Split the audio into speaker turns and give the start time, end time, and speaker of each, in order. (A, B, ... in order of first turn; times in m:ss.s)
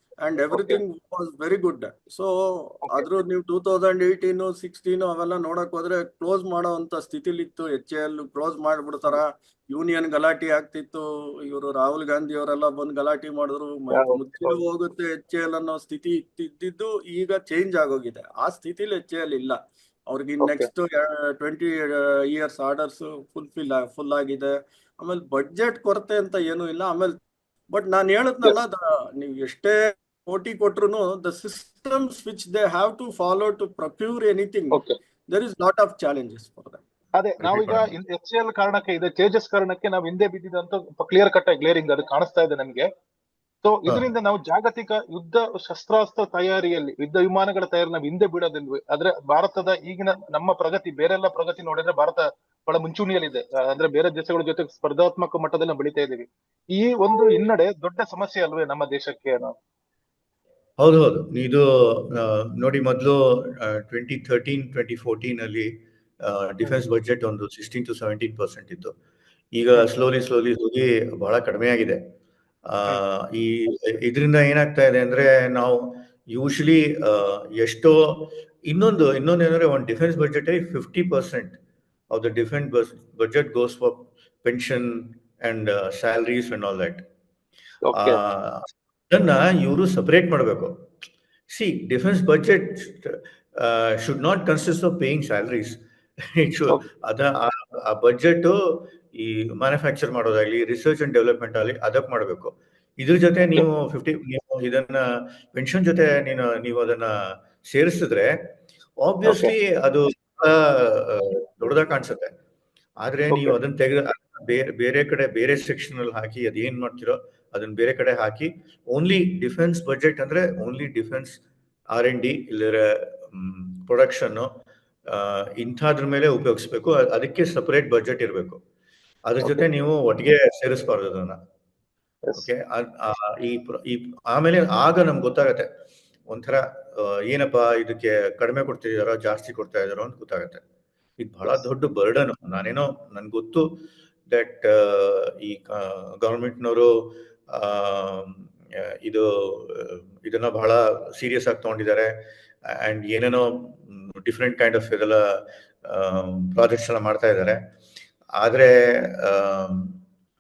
0:00.2-0:19.6 A
0:00.5-0:00.8 B
0:13.9-0:14.6 B
0:20.1-0:27.2 A
0:20.4-0:20.7 B
0:27.7-0:34.8 A
0:34.7-0:35.0 B
0:35.3-0:36.8 A
0:37.2-0:42.9 B
0:37.4-0:37.9 C
0:43.6-0:59.5 B
1:00.8-1:05.7 C
1:06.2-1:09.0 C
1:09.5-1:12.0 C
1:12.7-1:21.6 C
1:22.1-1:27.0 C
1:27.8-1:28.2 B
1:27.9-1:30.8 C
1:31.5-1:52.3 C
1:49.3-1:49.5 B
1:53.0-2:01.4 C
1:53.3-1:53.6 B
2:01.9-2:08.6 C
2:09.3-2:11.4 C
2:12.4-2:15.7 C
2:16.3-2:20.6 C
2:21.2-2:37.6 C
2:38.4-2:40.0 C